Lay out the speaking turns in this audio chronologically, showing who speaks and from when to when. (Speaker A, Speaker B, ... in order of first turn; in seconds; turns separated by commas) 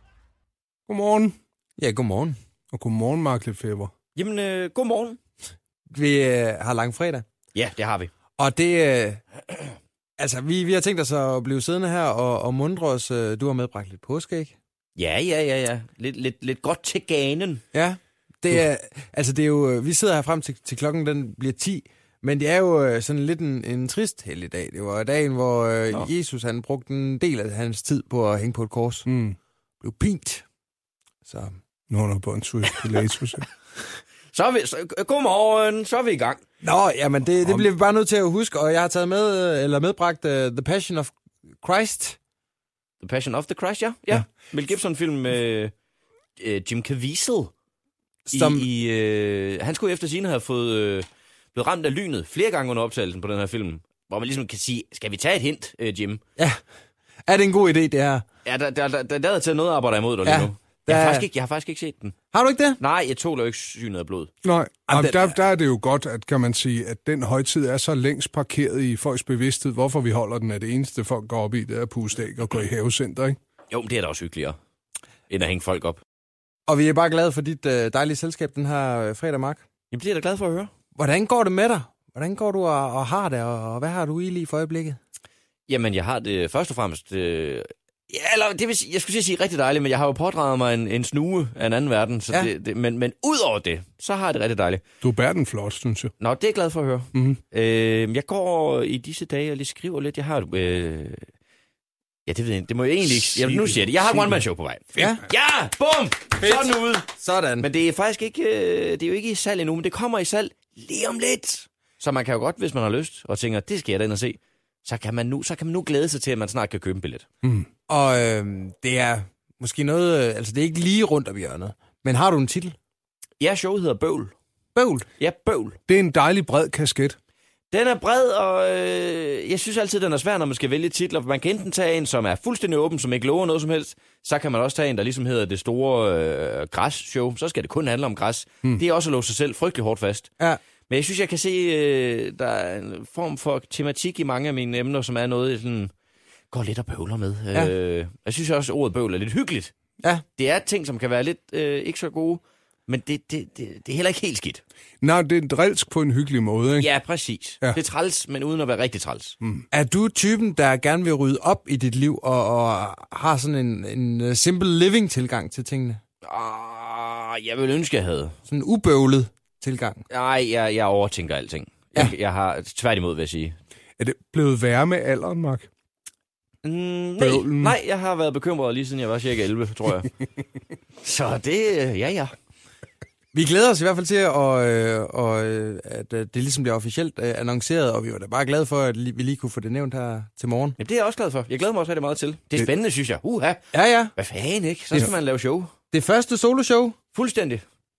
Speaker A: 0.9-1.4, Speaker B: 1.8-2.4, Speaker A: 2.7-3.9, Speaker C: 4.1-5.2, Speaker B: 5.9-7.2, Speaker C: 7.5-8.1, Speaker B: 8.4-9.2, Speaker B: 10.2-14.5, Speaker C: 14.9-17.6, Speaker B: 17.7-29.0, Speaker A: 29.1-29.4, Speaker B: 29.8-30.4, Speaker B: 31.2-31.5, Speaker A: 31.9-33.5, Speaker C: 34.3-36.4, Speaker B: 36.6-42.2, Speaker C: 43.0-45.7, Speaker C: 46.4-47.5, Speaker B: 48.2-48.7, Speaker C: 48.3-56.2, Speaker B: 57.3-58.2, Speaker C: 58.4-62.1, Speaker B: 60.2-61.3, Speaker B: 62.3-62.8, Speaker C: 62.8-64.3, Speaker A: 64.4-73.4, Speaker B: 64.9-65.3, Speaker C: 73.7-74.5, Speaker C: 75.3-76.0, Speaker B: 76.7-79.6, Speaker C: 79.9-80.7, Speaker B: 80.9-85.0, Speaker C: 85.7-94.8, Speaker A: 95.0-96.1, Speaker C: 96.2-101.2, Speaker A: 97.1-97.4, Speaker C: 102.2-107.0, Speaker B: 103.5-103.8, Speaker B: 105.0-105.2, Speaker B: 106.4-107.7, Speaker C: 107.6-117.2, Speaker B: 117.9-122.7, Speaker C: 123.4-124.3, Speaker B: 124.7-125.0, Speaker C: 125.2-125.8, Speaker A: 125.9-127.2, Speaker C: 127.7-140.3, Speaker C: 140.9-145.9, Speaker C: 146.5-149.7, Speaker C: 150.4-154.6, Speaker A: 155.0-156.9, Speaker C: 156.8-159.3, Speaker B: 159.7-166.0, Speaker C: 166.2-168.3, Speaker B: 168.5-170.0, Speaker C: 170.1-173.6, Speaker A: 174.0-175.7, Speaker C: 176.6-180.1, Speaker A: 177.2-177.8, Speaker C: 181.0-182.3, Speaker B: 183.3-190.8, Speaker C: 190.8-193.6, Speaker B: 193.7-194.1, Speaker C: 194.1-195.7, Speaker B: 195.9-196.9, Speaker C: 197.1-197.6